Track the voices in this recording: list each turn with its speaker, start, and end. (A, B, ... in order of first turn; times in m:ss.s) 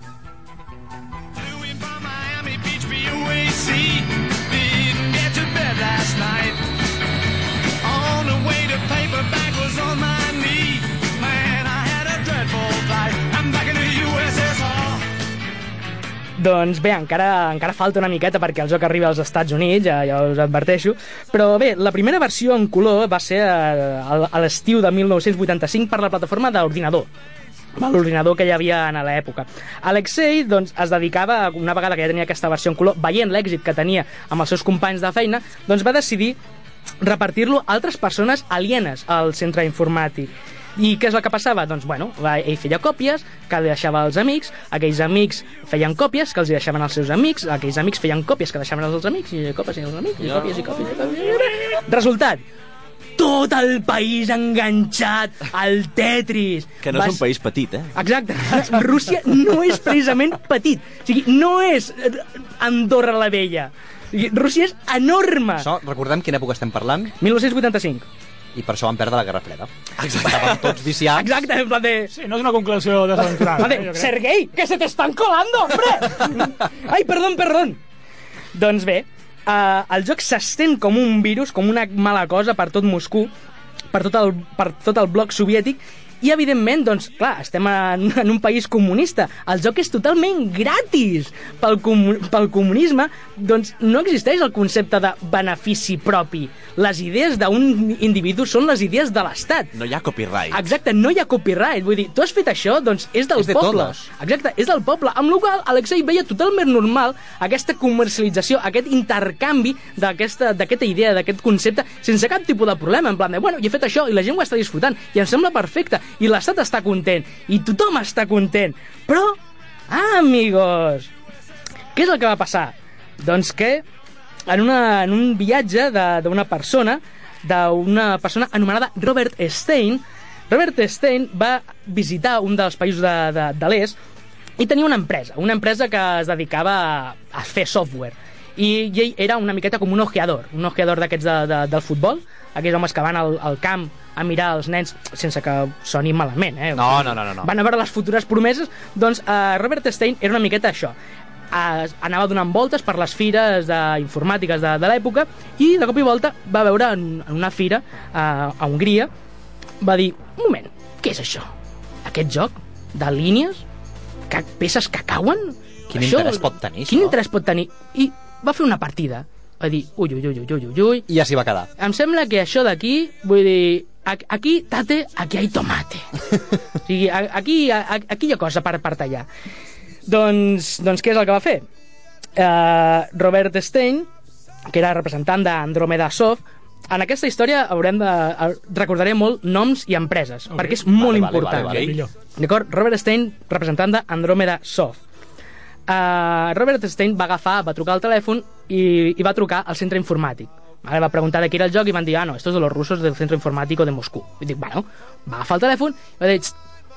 0:01.4-0:06.6 A
0:07.8-0:15.1 A
0:16.4-0:27.1 B
0:27.8-0:36.4 B
0:37.0-0:52.4 B
0:50.2-0:50.6 C
0:53.2-0:57.2 B
0:56.8-0:57.9 C
0:57.9-1:05.7 B
1:05.6-1:07.1 D
1:07.2-1:08.0 B
1:08.5-1:11.3 D
1:10.2-1:10.4 C
1:11.1-1:12.1 B
1:12.1-1:14.1 E
1:13.2-1:17.8 B
1:18.5-1:23.3 B
1:23.9-1:39.7 B
1:39.7-1:40.7 C
1:40.5-1:59.4 B
1:43.3-1:44.1 D
1:59.9-2:01.1 B
2:01.9-2:03.8 B
2:04.5-2:14.0 B
2:14.6-2:30.9 B
2:26.7-2:27.5 D
2:31.5-2:39.1 B
2:39.8-2:41.5 B
2:42.0-2:43.6 B
2:44.3-2:51.1 B
2:45.9-2:47.2 D
2:51.1-2:51.7 D
2:51.8-2:56.1 B
2:56.8-2:59.3 B
3:00.0-3:01.6 B
3:02.4-3:04.1 B
3:04.7-3:15.0 B
3:10.5-3:10.8 E
3:10.8-3:12.0 D
3:11.5-3:12.1 E
3:15.9-3:26.5 B